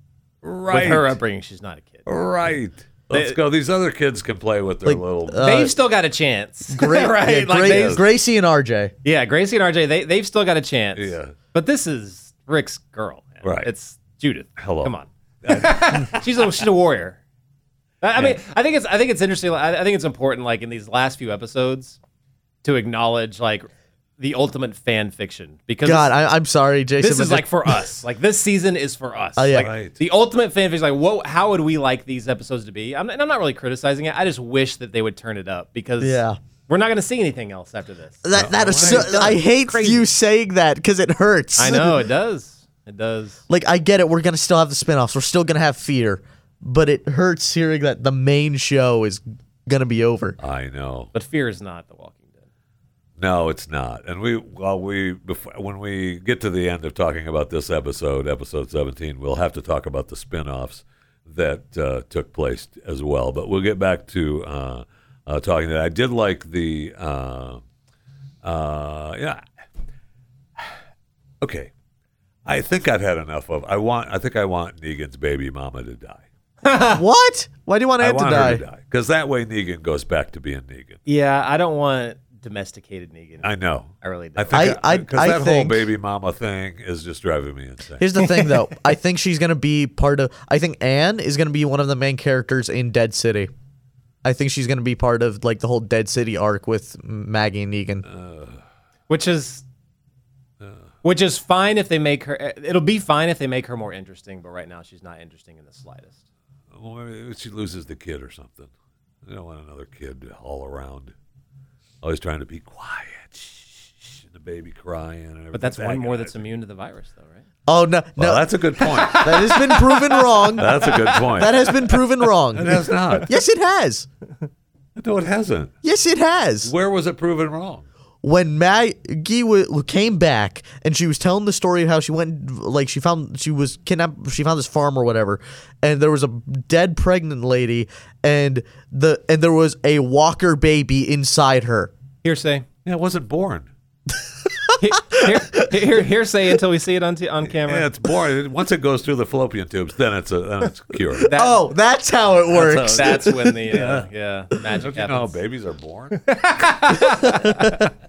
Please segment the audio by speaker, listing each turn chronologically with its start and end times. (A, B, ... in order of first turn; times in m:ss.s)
0:00.4-0:01.2 A
0:00.7-0:02.0 B
0:02.0-0:05.6 A
0:03.1-0:03.4 B
0:04.8-0:05.7 C
0:05.4-0:08.0 B
0:06.7-0:08.9 C
0:07.6-0:08.0 A
0:09.0-0:17.2 B
0:10.9-0:11.3 A
0:13.4-0:13.7 A
0:14.6-0:16.3 A
0:18.0-0:22.0 B
0:22.6-0:23.7 B
0:24.2-0:26.1 B
0:25.8-0:27.8 C
0:27.0-0:40.1 B
0:29.4-0:29.7 C
0:29.5-0:30.0 A
0:36.0-0:36.4 C
0:38.2-0:42.0 C
0:38.3-0:39.3 A
0:41.6-0:43.4 B
0:43.5-0:50.4 C
0:50.4-0:51.1 A
0:51.1-0:52.4 B
0:53.2-1:07.6 A
1:08.4-1:09.4 A
1:11.4-1:11.7 A
1:12.4-1:16.2 A
1:16.6-1:17.0 B
1:16.9-1:18.6 C
1:18.0-1:21.0 A
1:21.0-1:24.7 B
1:23.4-1:28.1 A
1:24.5-1:25.8 C
1:28.0-1:33.5 C
1:28.2-1:28.6 B
1:34.2-1:38.0 C
1:38.0-1:38.6 A
1:39.1-1:39.6 B
1:41.0-1:46.2 B
1:46.7-1:48.7 A
1:49.2-1:51.1 A
1:52.0-1:56.4 A
1:55.5-1:57.4 B
1:57.7-1:58.4 C
1:58.2-1:59.5 A
1:58.8-2:02.0 B
1:59.1-2:04.1 C
2:00.6-2:01.8 A
2:02.5-2:03.3 A
2:05.0-2:05.7 A
2:05.8-2:06.7 C
2:06.6-2:07.8 A
2:08.2-2:21.9 C
2:22.2-2:22.6 B
2:22.8-2:23.7 A
2:24.4-2:25.8 C
2:24.8-2:27.9 B
2:27.4-2:31.3 A
2:31.2-2:31.7 B
2:31.3-2:33.6 C
2:32.5-2:35.4 B
2:33.7-2:34.0 A
2:34.7-2:36.2 A
2:36.1-2:37.8 B
2:37.2-2:37.8 C